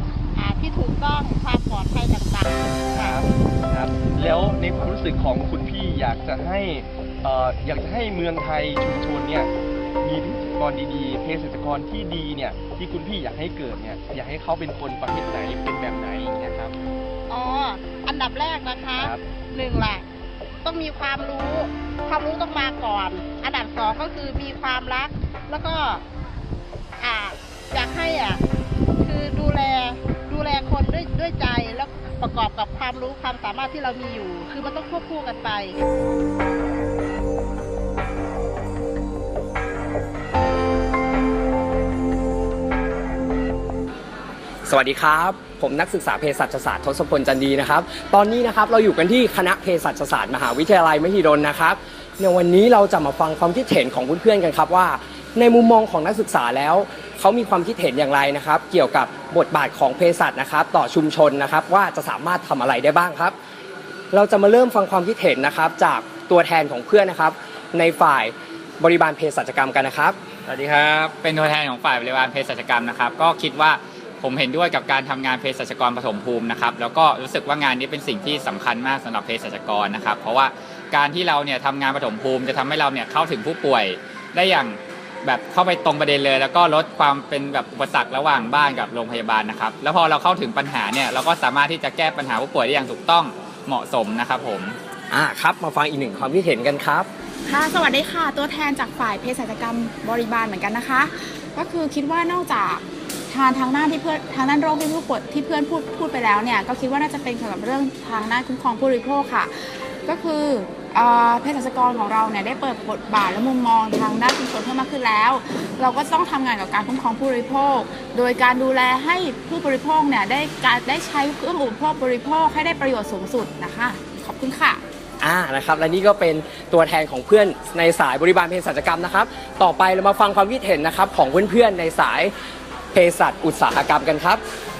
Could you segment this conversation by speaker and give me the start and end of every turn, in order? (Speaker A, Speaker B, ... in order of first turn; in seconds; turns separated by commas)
Speaker A: 0.3-3.2, Speaker B: 2.9-9.5, Speaker B: 10.0-16.8, Speaker A: 17.3-20.0, Speaker B: 18.9-19.2, Speaker A: 20.6-26.0, Speaker A: 27.0-28.4, Speaker A: 29.0-35.8, Speaker C: 44.6-63.4, Speaker C: 64.1-70.2, Speaker D: 71.2-94.8, Speaker C: 95.1-97.1, Speaker E: 97.4-124.8, Speaker C: 125.2-132.3, Speaker C: 132.9-134.4